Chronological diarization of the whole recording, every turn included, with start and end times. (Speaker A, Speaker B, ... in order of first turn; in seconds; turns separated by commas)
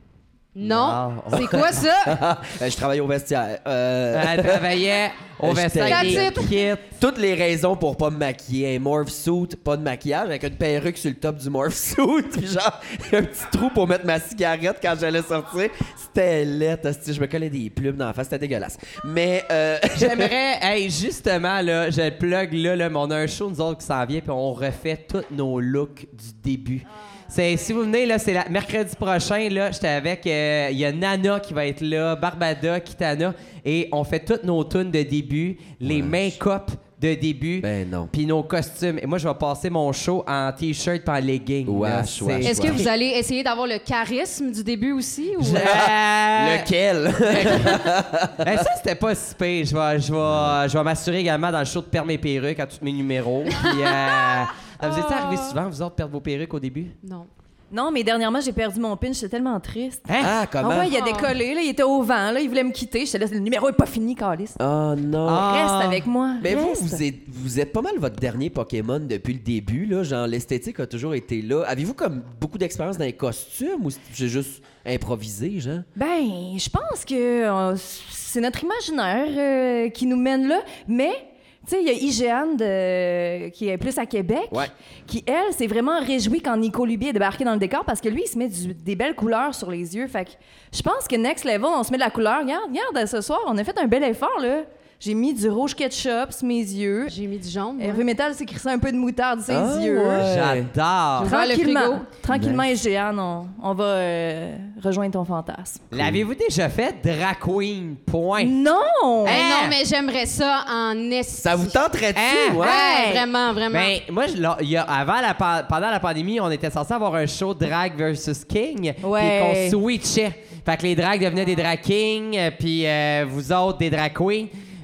Speaker A: 0.5-2.2, Speaker B: 0.6-1.7, Speaker C: 1.3-4.8, Speaker B: 4.1-6.9, Speaker C: 5.4-20.3, Speaker A: 5.8-6.5, Speaker B: 19.9-42.9, Speaker C: 35.8-36.4, Speaker C: 37.6-38.1, Speaker C: 41.6-42.9, Speaker A: 42.4-45.9, Speaker B: 45.4-46.7, Speaker C: 45.5-48.7, Speaker B: 47.2-57.0, Speaker A: 54.8-55.5, Speaker A: 57.0-57.3, Speaker D: 57.7-60.1, Speaker B: 60.1-60.3, Speaker C: 60.2-60.9, Speaker D: 60.6-64.6, Speaker A: 60.9-61.3, Speaker C: 64.6-65.5, Speaker B: 65.2-66.0, Speaker D: 65.3-67.0, Speaker C: 66.4-75.8, Speaker D: 76.0-97.1, Speaker A: 97.1-98.0, Speaker D: 97.8-100.3, Speaker C: 99.5-100.7, Speaker B: 100.2-101.3, Speaker A: 101.2-102.1, Speaker D: 101.2-105.8, Speaker C: 102.3-102.7, Speaker B: 105.9-108.5, Speaker C: 105.9-106.2, Speaker D: 108.4-109.4, Speaker A: 109.2-111.8, Speaker B: 109.2-109.8, Speaker C: 111.4-112.8, Speaker B: 112.1-112.6, Speaker D: 112.6-113.2, Speaker A: 112.6-113.9, Speaker B: 113.7-124.5, Speaker D: 119.0-119.8